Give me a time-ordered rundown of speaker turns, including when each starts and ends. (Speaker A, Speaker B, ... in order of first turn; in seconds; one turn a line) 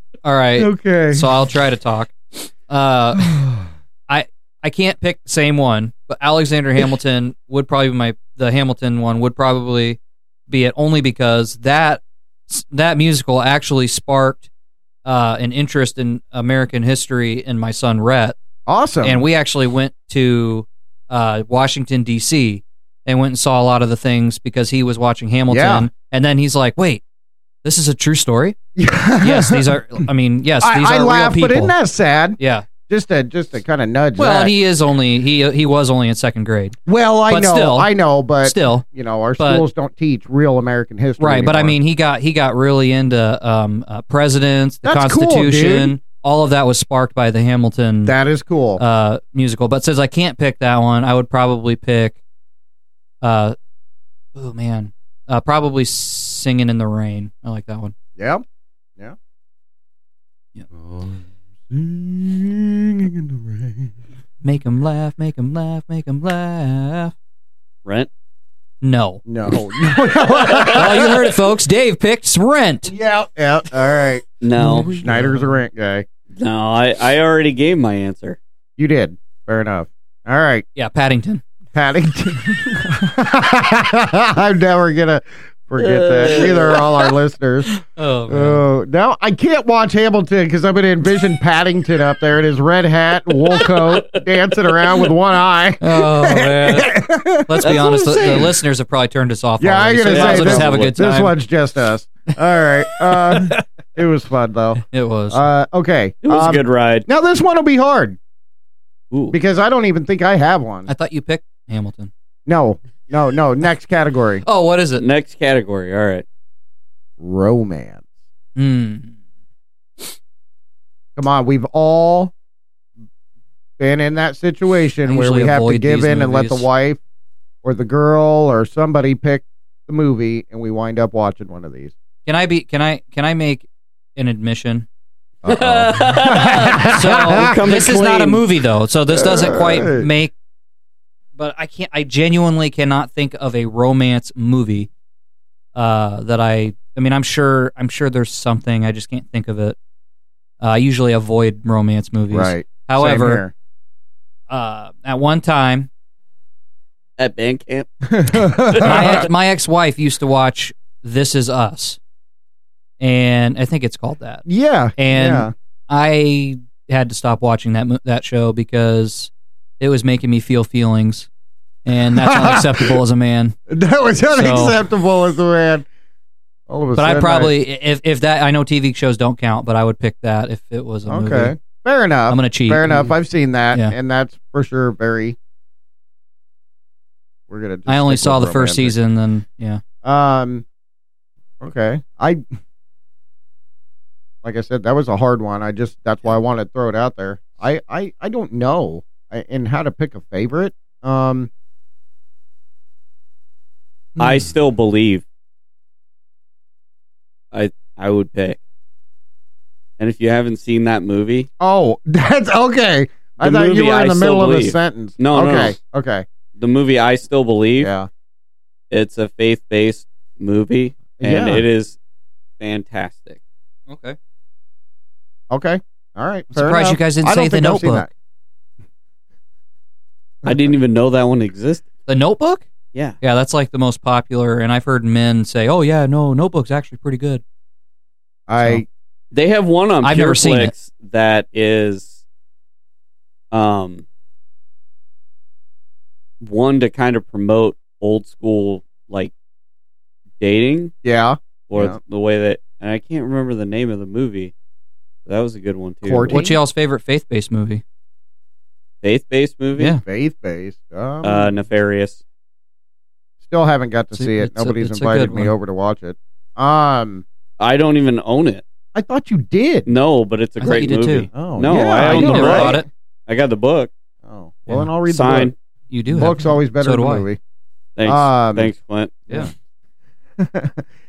Speaker A: 0.2-2.1
Speaker B: 0.6-1.3
Speaker A: 2.7-3.4
Speaker B: 3.2-3.6
Speaker A: 4.1-14.5
Speaker A: 15.0-18.3
Speaker B: 18.7-19.2
Speaker A: 19.0-27.0
Speaker B: 25.5-25.9
Speaker A: 27.6-28.6
Speaker B: 28.8-30.1
Speaker A: 29.2-31.7
Speaker B: 30.6-34.5
Speaker A: 32.4-32.7
Speaker A: 34.2-36.8
Speaker B: 36.9-41.8
Speaker A: 37.3-37.9
Speaker A: 38.4-38.8
Speaker A: 39.4-39.7
Speaker A: 41.2-48.1
Speaker B: 44.8-46.0
Speaker B: 48.0-48.8
Speaker A: 48.8-52.2
Speaker A: 53.2-53.5
Speaker A: 54.3-57.9
Speaker B: 58.2-58.4
Speaker B: 60.7-63.9
Speaker A: 64.4-67.1
Speaker A: 68.8-69.2
Speaker B: 69.2-71.3
Speaker C: 70.2-70.8
Speaker A: 70.7-72.9
Speaker B: 72.9-76.0
Speaker C: 74.4-75.0
Speaker A: 74.6-75.4
Speaker C: 76.3-78.4
Speaker B: 78.8-80.6
Speaker A: 80.8-81.4
Speaker B: 81.7-87.7
Speaker C: 85.8-87.1
Speaker A: 87.9-88.6
Speaker B: 88.3-98.6
Speaker C: 93.5-94.9
Speaker A: 95.8-101.3
Speaker B: 99.6-108.2
Speaker C: 100.1-100.9
Speaker A: 103.1-103.5
Speaker A: 104.8-105.4
Speaker C: 106.2-107.0
Speaker B: 109.3-110.9
Speaker A: 110.9-112.1
Speaker B: 112.5-114.4
Speaker A: 114.4-115.0
Speaker C: 115.0-116.2
Speaker B: 117.2-118.0
Speaker A: 118.5-119.1
Speaker B: 121.2-122.3
Speaker B: 123.8-127.0
Speaker A: 125.0-126.7
Speaker B: 127.6-131.9
Speaker A: 132.2-134.9
Speaker B: 135.4-137.7
Speaker C: 135.4-138.4
Speaker A: 136.7-140.3
Speaker B: 139.1-140.1
Speaker A: 141.3-144.9
Speaker A: 145.7-149.8
Speaker A: 150.6-153.4
Speaker B: 152.3-153.5
Speaker A: 154.5-155.9
Speaker C: 157.2-157.9
Speaker B: 158.1-159.2
Speaker A: 158.7-162.0
Speaker A: 163.0-164.4
Speaker B: 164.4-165.5
Speaker A: 165.0-171.3
Speaker A: 171.8-173.6
Speaker B: 172.0-173.0
Speaker B: 173.7-175.9
Speaker A: 174.3-174.8
Speaker B: 176.7-177.5
Speaker A: 177.0-181.5
Speaker B: 181.1-185.3
Speaker A: 182.3-183.1
Speaker B: 187.5-188.9
Speaker A: 187.9-189.8
Speaker B: 190.0-190.6
Speaker B: 191.6-192.4
Speaker B: 194.4-201.5
Speaker B: 204.2-204.4
Speaker C: 204.2-205.2
Speaker C: 207.5-208.6
Speaker C: 210.0-211.5
Speaker B: 211.6-216.2
Speaker C: 213.4-215.7
Speaker C: 216.6-217.9
Speaker B: 217.8-218.1
Speaker C: 218.9-222.0
Speaker B: 221.2-221.6
Speaker C: 222.6-223.4
Speaker A: 223.9-224.2
Speaker B: 225.5-228.1
Speaker A: 226.5-228.1
Speaker C: 230.4-231.9
Speaker A: 232.1-232.7
Speaker A: 233.2-237.4
Speaker B: 238.5-238.8
Speaker C: 239.3-242.2
Speaker A: 240.0-240.7
Speaker C: 243.5-244.0
Speaker C: 246.4-249.3
Speaker C: 250.4-250.9
Speaker B: 251.0-252.0
Speaker C: 251.7-254.5
Speaker C: 255.2-256.4
Speaker B: 256.0-256.6
Speaker A: 256.3-257.8
Speaker C: 259.0-260.0
Speaker A: 259.8-260.0
Speaker B: 260.0-261.5
Speaker C: 261.2-262.2
Speaker B: 263.4-267.2
Speaker A: 264.1-265.5
Speaker C: 267.6-268.6
Speaker B: 268.9-269.9
Speaker C: 269.9-273.9
Speaker A: 270.6-272.9
Speaker B: 271.3-272.8
Speaker B: 274.2-275.5
Speaker C: 275.1-275.5
Speaker A: 275.9-277.2
Speaker B: 276.1-277.4
Speaker C: 278.0-279.2
Speaker B: 278.1-278.7
Speaker B: 280.4-280.9